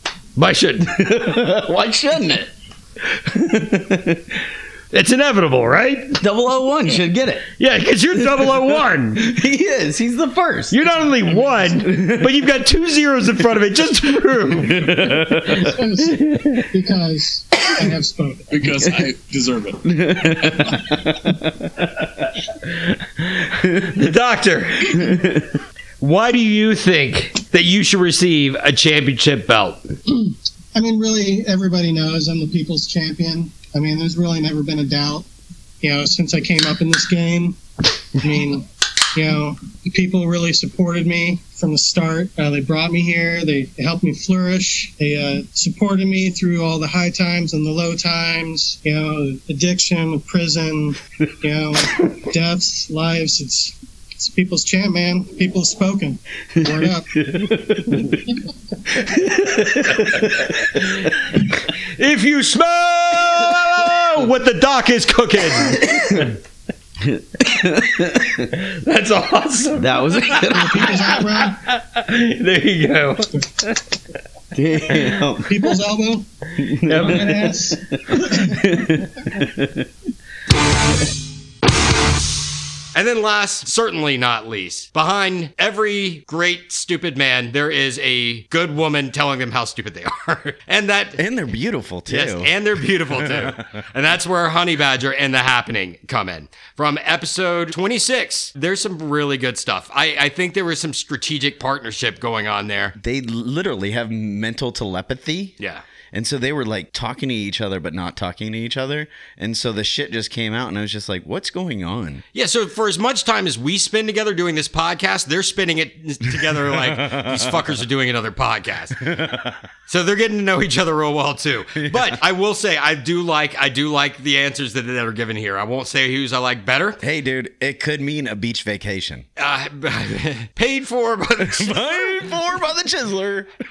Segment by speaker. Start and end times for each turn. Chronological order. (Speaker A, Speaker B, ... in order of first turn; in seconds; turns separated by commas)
Speaker A: 0.3-0.9, Speaker B: 0.9-2.5, Speaker B: 3.3-4.2, Speaker A: 4.9-6.2, Speaker B: 6.2-7.4, Speaker A: 7.6-9.3, Speaker B: 8.3-12.4, Speaker A: 10.7-16.5, Speaker B: 14.8-15.7, Speaker C: 15.6-16.2, Speaker C: 16.7-18.4, Speaker D: 18.5-20.8, Speaker B: 19.9-21.2, Speaker A: 23.4-25.1, Speaker B: 25.0-25.5, Speaker A: 26.0-29.9, Speaker C: 30.3-35.3, Speaker C: 35.8-37.6, Speaker C: 38.2-57.1, Speaker B: 56.6-58.2, Speaker B: 59.1-60.3, Speaker A: 62.0-66.2, Speaker B: 65.7-66.3, Speaker B: 67.0-68.5, Speaker A: 68.6-73.8, Speaker B: 69.8-71.1, Speaker C: 70.5-71.6, Speaker B: 74.5-75.6, Speaker C: 75.5-76.3, Speaker B: 76.6-77.6, Speaker A: 76.8-77.5, Speaker C: 77.0-77.8, Speaker B: 78.1-79.8, Speaker A: 82.9-91.2, Speaker B: 91.2-92.5, Speaker A: 92.1-102.9, Speaker B: 103.0-105.5, Speaker B: 106.1-112.2, Speaker A: 112.3-119.0, Speaker B: 117.0-117.3, Speaker B: 119.1-119.5, Speaker A: 119.9-127.0, Speaker B: 121.8-122.1, Speaker B: 127.0-129.2, Speaker A: 129.4-132.2, Speaker B: 131.4-133.5